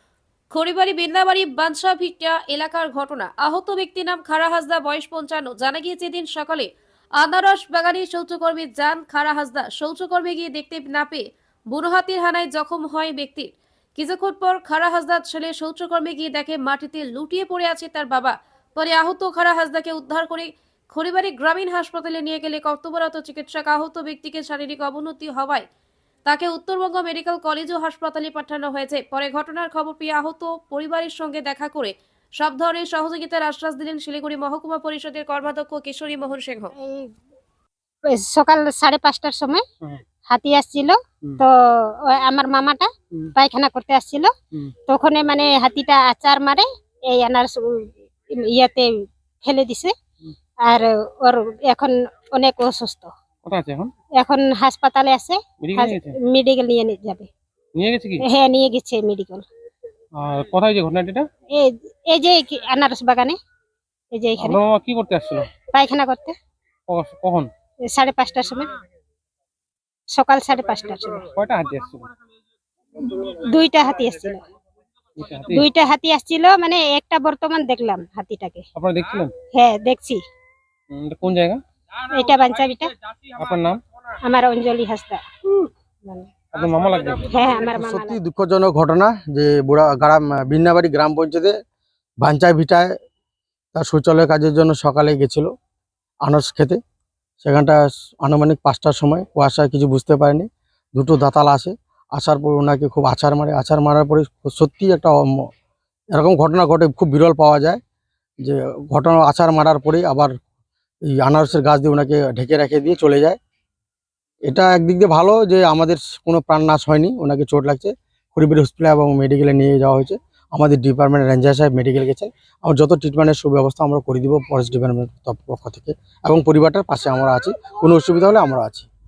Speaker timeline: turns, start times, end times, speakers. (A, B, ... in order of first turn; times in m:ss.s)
0:00.5-0:25.6 A
0:26.2-0:36.7 A
0:36.8-0:37.1 B
0:38.1-0:39.6 B
0:40.3-0:44.3 B
0:44.9-0:49.9 B
0:50.6-0:53.1 B
0:53.4-0:53.9 C
0:54.2-0:57.3 B
0:55.6-0:56.2 C
0:57.7-0:58.2 C
0:58.2-0:59.4 B
1:00.1-1:01.2 C
1:01.5-1:03.4 B
1:04.1-1:04.6 B
1:04.4-1:05.4 C
1:05.7-1:06.3 B
1:06.9-1:07.5 C
1:07.9-1:08.7 B
1:10.1-1:11.3 B
1:11.3-1:12.1 C
1:13.0-1:14.4 B
1:15.2-1:15.7 C
1:15.5-1:18.6 B
1:18.7-1:19.3 C
1:19.5-1:20.2 B
1:20.9-1:21.6 C
1:22.1-1:22.9 B
1:23.3-1:23.8 C
1:24.2-1:25.2 B
1:26.5-1:27.5 C
1:27.3-1:28.2 B
1:27.7-1:31.5 D
1:32.2-1:32.9 D
1:33.7-1:35.5 D
1:36.2-1:36.8 D
1:37.4-1:45.5 D
1:46.1-1:47.8 D
1:48.4-1:50.3 D
1:51.0-1:53.4 D
1:54.4-2:08.9 D